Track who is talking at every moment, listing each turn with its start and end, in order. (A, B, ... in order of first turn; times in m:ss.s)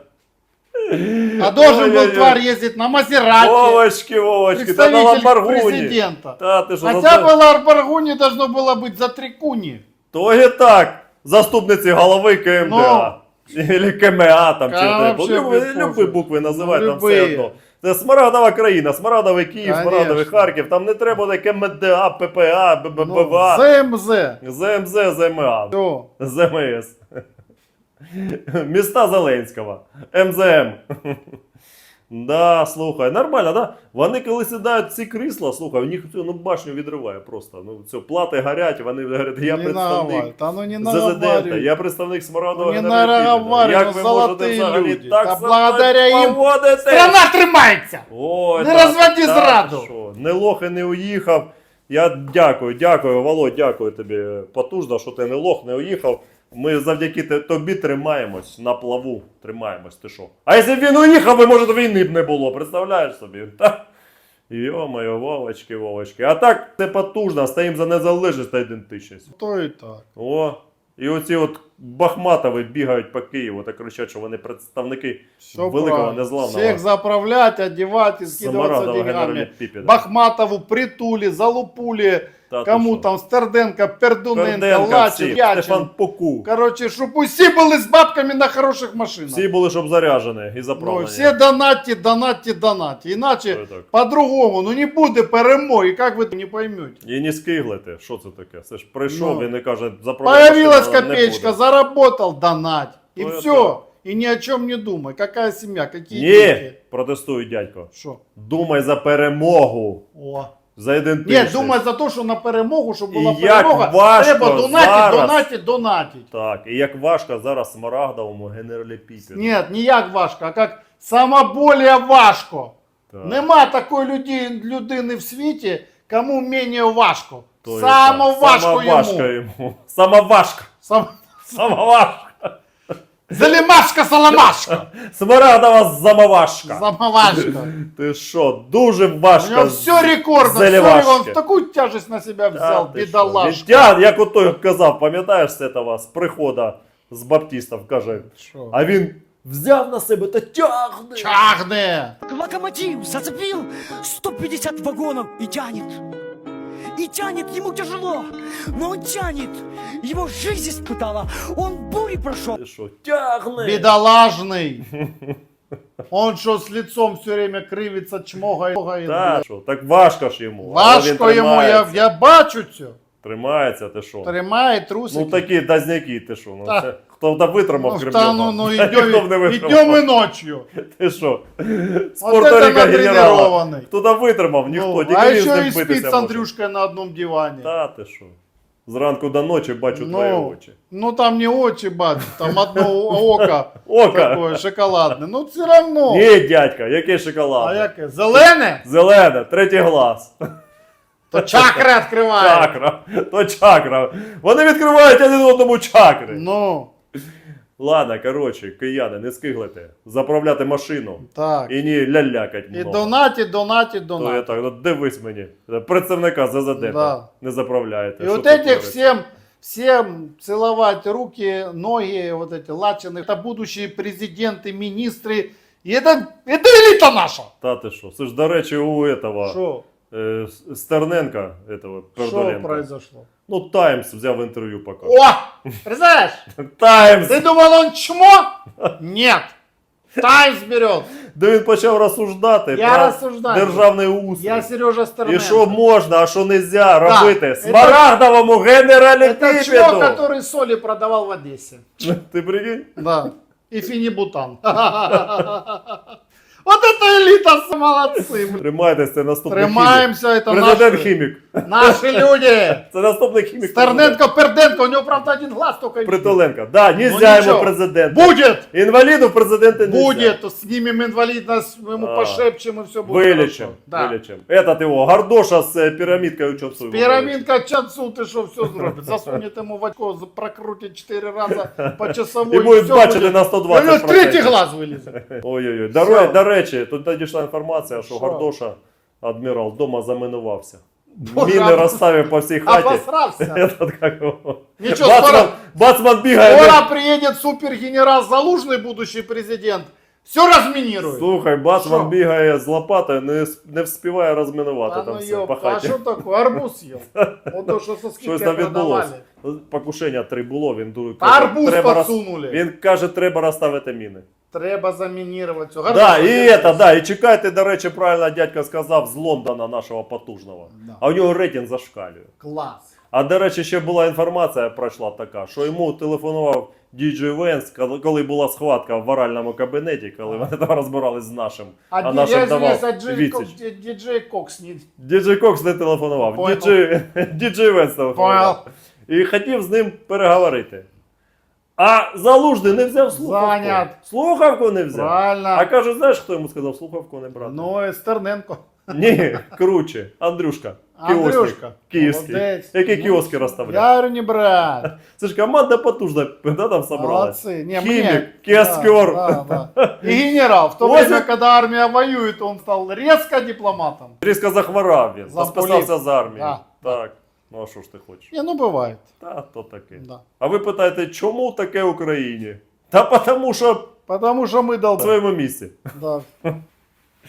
0:00.8-0:02.4 A
0:01.4-0:03.8 B
0:03.3-0:07.3 A
0:04.5-0:09.8 B
0:10.1-0:23.6 A
0:12.6-0:13.1 B
0:14.7-0:17.5 B
0:19.6-0:20.5 B
0:23.0-0:24.4 B
0:24.4-0:27.0 A
0:25.7-0:26.1 B
0:28.1-0:31.2 A
0:32.1-0:47.2 A
0:39.4-0:41.7 B
0:42.5-0:48.0 B
0:48.1-1:03.8 A
0:48.6-0:49.9 B
1:04.5-1:09.3 A
1:09.3-1:10.0 B
1:10.1-1:16.8 A
1:15.5-1:25.9 B
1:18.3-1:20.0 A
1:22.5-1:23.0 A
1:24.3-1:26.5 A
1:26.4-1:29.4 B
1:29.3-1:31.3 A
1:30.8-1:37.0 B
1:33.5-1:33.9 A
1:37.0-1:41.6 A
1:39.1-1:39.5 B
1:40.2-1:46.7 B
1:43.2-1:43.8 A
1:46.1-1:50.0 A
1:47.9-1:48.2 B
1:50.1-1:50.5 B
1:50.7-1:51.8 A
1:51.2-1:56.3 B
1:53.1-1:55.5 A
1:56.3-1:59.6 A
1:59.3-2:09.3 B
2:03.1-2:03.4 A
2:07.6-2:10.7 A
2:10.8-2:11.1 B
2:11.5-2:12.5 A
2:13.3-2:14.8 B
2:14.7-2:21.4 A
2:16.6-2:17.7 B
2:19.4-2:23.9 B
2:22.5-2:31.4 A
2:28.2-2:28.8 B
2:31.1-2:32.2 B
2:32.2-2:36.0 C
2:36.9-2:42.6 C
2:42.5-2:43.9 A
2:43.6-2:44.8 B
2:44.9-2:45.4 A
2:46.1-2:49.4 B
2:49.0-2:52.1 A
2:50.6-2:53.0 B
2:53.2-2:54.3 A
2:54.2-2:55.4 B
2:55.1-3:00.0 A
2:57.7-3:00.7 B
3:00.7-3:06.5 A
3:02.2-3:03.9 B
3:04.7-3:07.7 B
3:07.6-3:08.4 A
3:08.9-3:10.8 A
3:09.9-3:16.3 B
3:12.3-3:14.6 A
3:16.1-3:20.4 A
3:17.6-3:18.8 B
3:21.3-3:22.7 B
3:21.4-3:21.8 A
3:22.4-3:26.4 A
3:26.3-3:26.9 B
3:27.8-3:33.1 A
3:31.3-3:31.7 B
3:32.7-3:34.6 B
3:34.2-3:39.1 A
3:36.7-3:37.2 B
3:38.2-3:47.5 B
3:47.6-3:49.6 A
3:49.4-3:49.8 B
3:50.1-3:52.8 A
3:52.2-3:53.3 B
3:53.5-3:55.1 A
3:55.0-3:56.4 B
3:56.6-3:57.4 A
3:57.3-3:59.6 B
4:00.2-4:01.1 B
4:01.3-4:04.7 A
4:02.7-4:05.8 B
4:05.2-4:10.2 A
4:07.0-4:08.1 B
4:09.2-4:11.8 B
4:12.0-4:13.0 A
4:13.0-4:16.0 B
4:15.1-4:15.4 A
4:16.6-4:18.6 B
4:18.5-4:24.2 A
4:19.5-4:21.1 B
4:21.6-4:22.8 B
4:23.6-4:26.4 B
4:26.0-4:30.4 A
4:26.9-4:28.6 B
4:29.8-4:34.1 B
4:32.0-4:32.4 A
4:33.0-4:37.4 A
4:36.8-4:45.2 B
4:38.7-4:39.4 A
4:41.5-4:44.6 A
4:45.2-4:56.8 A
4:45.9-4:46.4 B
4:47.9-4:48.5 B
4:51.2-4:53.6 B
4:54.8-4:55.6 B
4:56.3-5:02.1 B
5:01.0-5:06.0 A
5:04.9-5:09.2 B
5:07.2-5:07.5 A
5:08.2-5:14.2 A
5:11.2-5:12.6 B
5:14.5-5:16.9 B
5:15.9-5:22.3 A
5:20.7-5:21.0 B
5:22.4-5:22.9 B
5:23.1-5:33.5 A
5:31.9-5:34.9 B
5:35.0-5:40.9 A
5:36.2-5:36.8 B
5:38.1-5:38.6 B
5:41.8-5:47.7 A
5:43.1-5:43.9 B
5:44.9-5:45.7 B
5:47.4-5:49.5 B
5:48.9-5:53.9 A
5:51.0-5:54.9 B
5:55.0-6:00.2 A
5:56.9-6:04.2 B
6:00.8-6:01.2 A
6:04.2-6:08.3 A
6:05.2-6:07.0 B
6:08.3-6:09.0 B
6:09.2-6:13.9 A
6:10.0-6:10.2 B
6:14.1-6:15.1 B
6:15.0-6:15.7 A
6:15.9-6:16.3 B